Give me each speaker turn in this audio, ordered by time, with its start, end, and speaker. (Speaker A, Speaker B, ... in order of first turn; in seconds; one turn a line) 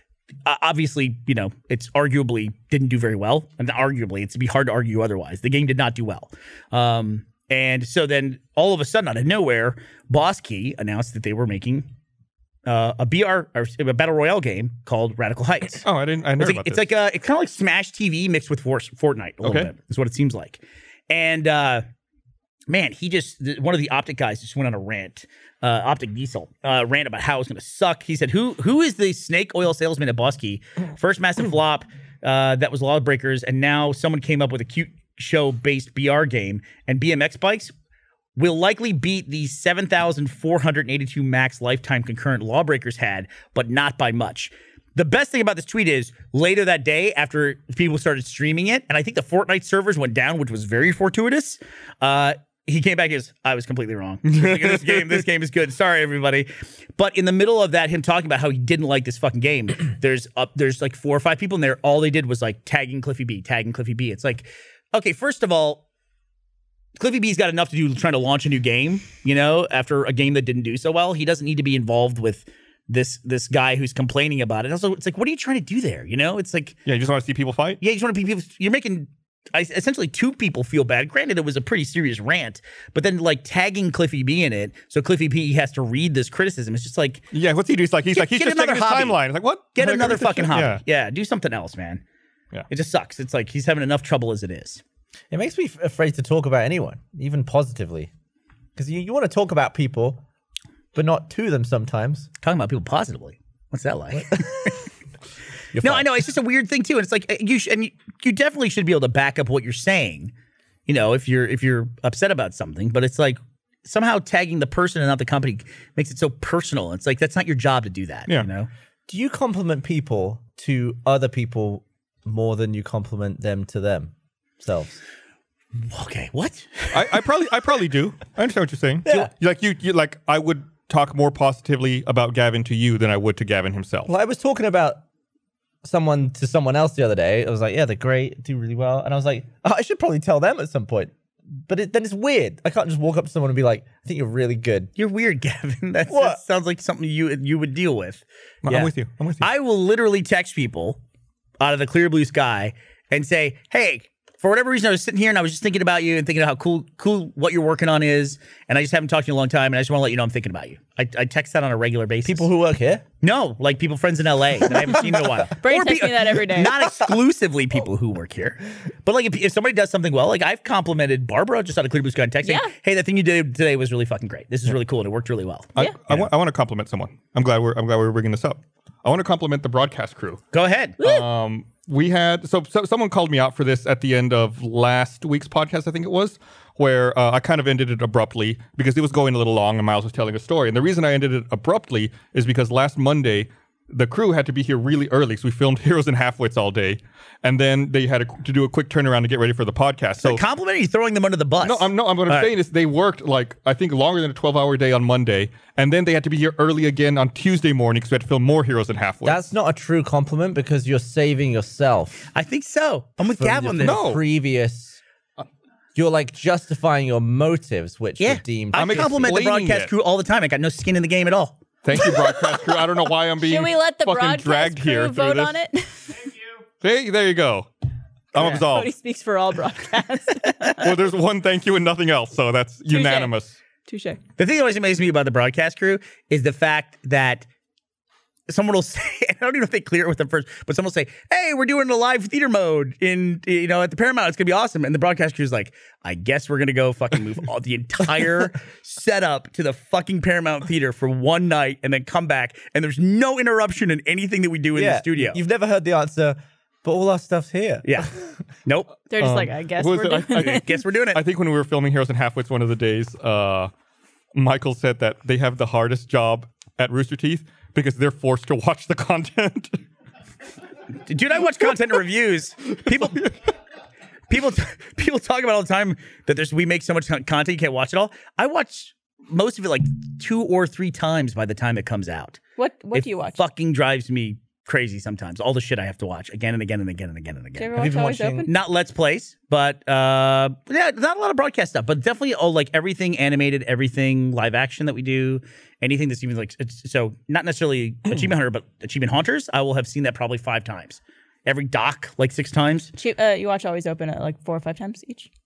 Speaker A: 0.4-11.9
Speaker A: 12.7-15.9
Speaker B: 15.8-16.9
Speaker A: 16.4-21.8
Speaker B: 19.4-19.7
Speaker A: 22.7-37.7
Speaker A: 38.4-65.8
Speaker B: 54.2-55.2
Speaker A: 67.0-76.8
Speaker B: 76.8-77.8
Speaker A: 77.8-87.3
Speaker B: 87.3-90.8
Speaker A: 88.1-89.2
Speaker A: 89.7-92.0
Speaker A: 92.7-94.8
Speaker C: 95.3-98.1
Speaker C: 98.8-100.2
Speaker C: 100.9-102.3
Speaker A: 102.4-104.9
Speaker C: 105.7-106.1
Speaker A: 105.8-110.3
Speaker A: 110.9-118.7
Speaker C: 119.1-125.0
Speaker A: 125.8-127.3
Speaker B: 126.9-134.1
Speaker C: 129.0-129.3
Speaker C: 134.1-135.0
Speaker C: 135.8-144.9
Speaker A: 145.0-151.0
Speaker C: 146.1-146.4
Speaker B: 148.6-149.5
Speaker A: 151.6-162.5
Speaker C: 162.2-163.0
Speaker A: 163.2-176.3
Speaker D: 165.6-166.8
Speaker D: 172.4-172.7
Speaker B: 175.8-180.4
Speaker A: 180.5-181.0
Speaker D: 181.0-181.3
Speaker B: 181.0-200.4
Speaker A: 200.2-202.5
Speaker B: 201.6-209.4
Speaker C: 209.2-212.3
Speaker A: 212.3-214.1
Speaker C: 213.3-215.0
Speaker B: 213.8-214.2
Speaker C: 215.9-219.2
Speaker A: 218.2-221.6
Speaker B: 218.7-219.9
Speaker B: 221.8-225.6
Speaker D: 221.9-222.8
Speaker D: 223.4-226.2
Speaker B: 226.8-227.7
Speaker B: 228.3-228.9
Speaker D: 228.3-230.9
Speaker B: 230.8-233.5
Speaker D: 232.9-233.3
Speaker D: 233.8-234.2
Speaker A: 234.4-237.4
Speaker A: 238.5-255.4
Speaker C: 254.7-258.3
Speaker A: 257.8-258.1
Speaker A: 258.6-258.9
Speaker D: 259.1-260.8
Speaker B: 259.2-263.7
Speaker A: 260.4-261.2
Speaker B: 264.3-269.8
Speaker A: 271.1-273.3
Speaker A: 274.3-282.4
Speaker D: 282.6-283.4
Speaker A: 282.9-287.8
Speaker D: 287.6-288.5
Speaker C: 287.7-288.5
Speaker A: 288.4-302.9
Speaker D: 302.9-305.3